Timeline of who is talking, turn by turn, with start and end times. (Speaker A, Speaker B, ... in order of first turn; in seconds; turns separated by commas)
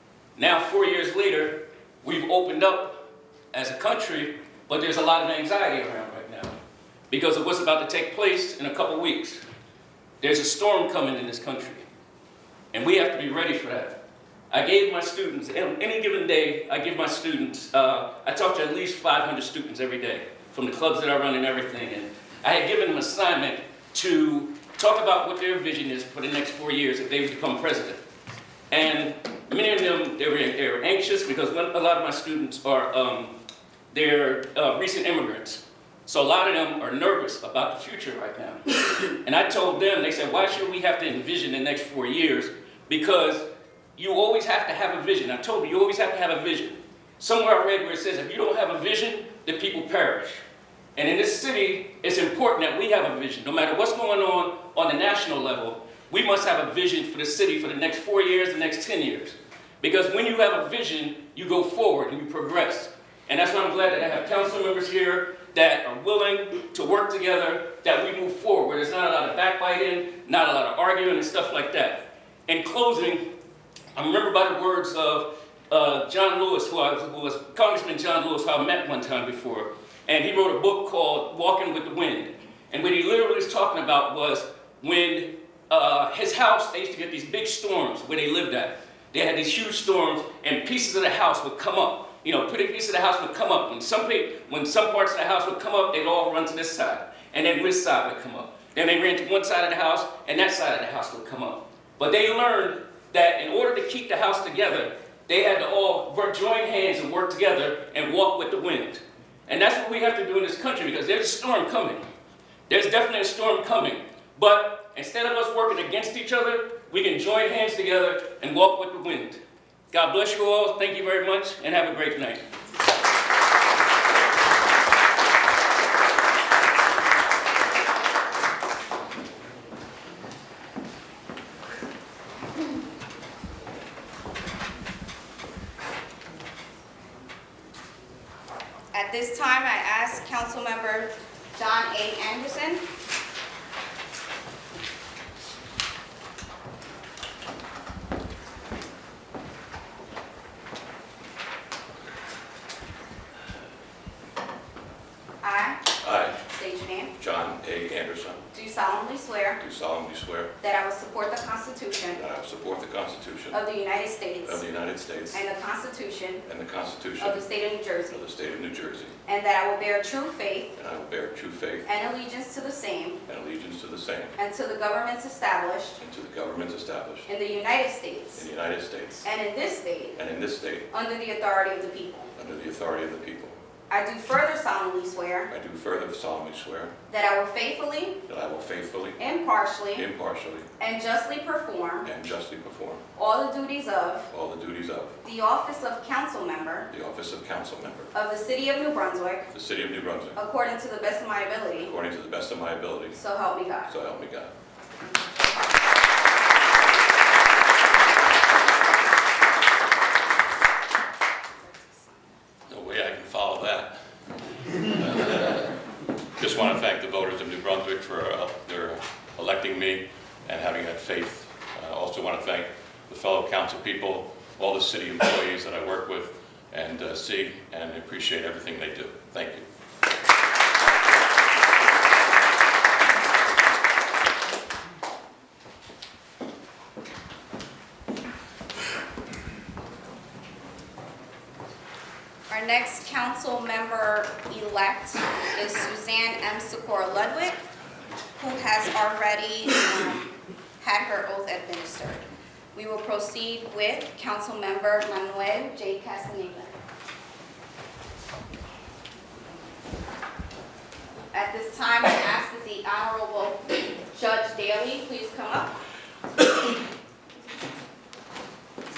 Speaker A: 0.4-3.0, Speaker A: 3.5-6.5, Speaker A: 7.1-9.4, Speaker A: 10.2-11.8, Speaker A: 12.7-14.0, Speaker A: 14.5-28.0, Speaker A: 28.7-33.4, Speaker A: 33.9-50.4, Speaker A: 51.0-73.3, Speaker A: 74.0-112.1, Speaker A: 112.7-122.4, Speaker B: 138.9-142.8, Speaker B: 155.4-155.8, Speaker C: 156.0-156.4, Speaker B: 156.5-157.1, Speaker C: 157.2-158.4, Speaker B: 158.5-159.6, Speaker C: 159.6-160.5, Speaker B: 160.6-162.2, Speaker C: 162.1-163.6, Speaker B: 163.5-164.6, Speaker C: 164.4-165.4, Speaker B: 165.3-166.4, Speaker C: 166.5-167.5, Speaker B: 167.2-168.2, Speaker C: 168.1-169.1, Speaker B: 169.3-170.8, Speaker C: 170.8-171.9, Speaker B: 171.8-173.2, Speaker C: 173.3-174.3, Speaker B: 174.4-176.0, Speaker C: 176.0-177.3, Speaker B: 177.3-178.4, Speaker C: 178.3-179.3, Speaker B: 179.2-180.2, Speaker C: 180.2-180.9, Speaker B: 180.9-182.3, Speaker C: 182.4-183.6, Speaker B: 183.9-185.5, Speaker C: 185.5-186.9, Speaker B: 187.1-188.2, Speaker C: 188.3-189.2, Speaker B: 189.2-190.1, Speaker C: 189.9-190.7, Speaker B: 190.8-192.1, Speaker C: 192.0-193.0, Speaker B: 193.2-194.3, Speaker C: 194.3-195.2, Speaker B: 195.2-196.9, Speaker C: 196.9-198.1, Speaker B: 198.1-199.5, Speaker C: 199.5-200.4, Speaker B: 200.4-201.9, Speaker C: 201.8-203.2, Speaker B: 203.2-203.9, Speaker C: 203.9-204.5, Speaker C: 212.7-213.9, Speaker C: 214.9-215.8, Speaker C: 216.4-229.7, Speaker B: 242.5-247.6, Speaker B: 248.4-256.8, Speaker B: 261.3-265.8